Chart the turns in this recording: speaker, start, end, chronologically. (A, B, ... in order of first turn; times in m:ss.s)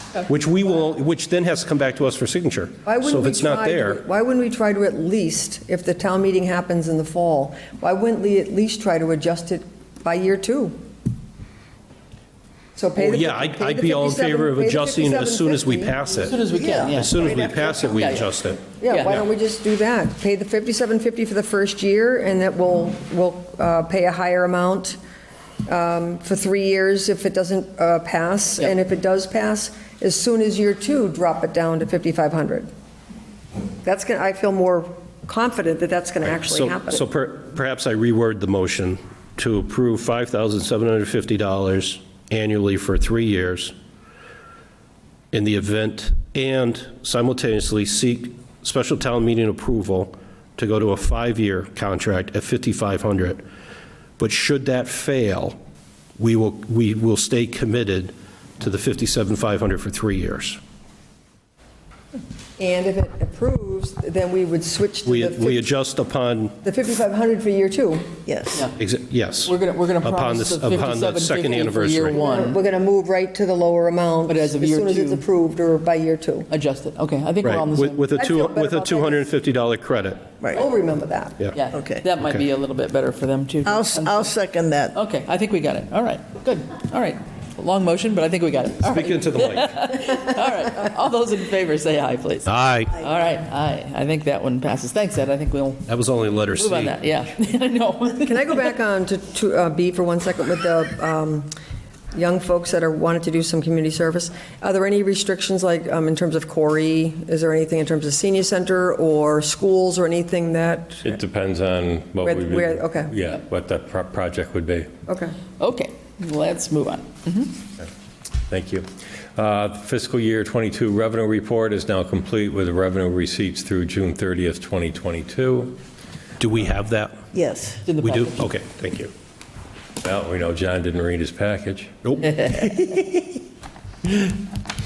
0:00.3-0:04.0 A
0:02.8-0:10.8 B
0:12.8-0:16.0 B
0:13.0-0:19.2 A
0:16.2-0:18.3 C
0:16.5-0:17.0 D
0:17.2-0:18.0 B
0:18.6-0:25.0 B
0:18.9-0:19.2 C
0:25.7-0:32.7 B
0:33.8-0:37.0 B
0:36.2-0:43.7 A
0:45.3-0:53.4 A
0:54.2-0:55.6 A
0:56.2-1:00.6 A
1:02.6-1:05.7 B
1:05.0-1:06.6 A
1:06.6-1:08.1 B
1:08.3-1:08.7 D
1:08.8-1:12.2 A
1:09.4-1:12.6 C
1:12.1-1:16.5 B
1:14.3-1:15.2 C
1:16.5-1:18.0 C
1:17.4-1:20.3 A
1:18.2-1:19.3 B
1:20.5-1:21.4 B
1:21.5-1:24.3 C
1:21.7-1:22.0 D
1:23.6-1:25.0 D
1:24.9-1:35.9 C
1:28.8-1:29.8 A
1:32.5-1:32.9 A
1:35.9-1:37.0 A
1:36.6-1:38.7 C
1:38.2-1:41.5 B
1:42.1-1:51.2 B
1:51.0-1:54.9 E
1:52.2-1:53.1 B
1:55.1-1:55.4 B
1:55.6-1:57.6 C
1:58.5-2:05.8 E
2:06.4-2:07.2 A
2:07.3-2:07.8 D
2:07.8-2:08.4 C
2:08.0-2:09.1 A
2:10.0-2:12.0 E
2:12.0-2:13.0 A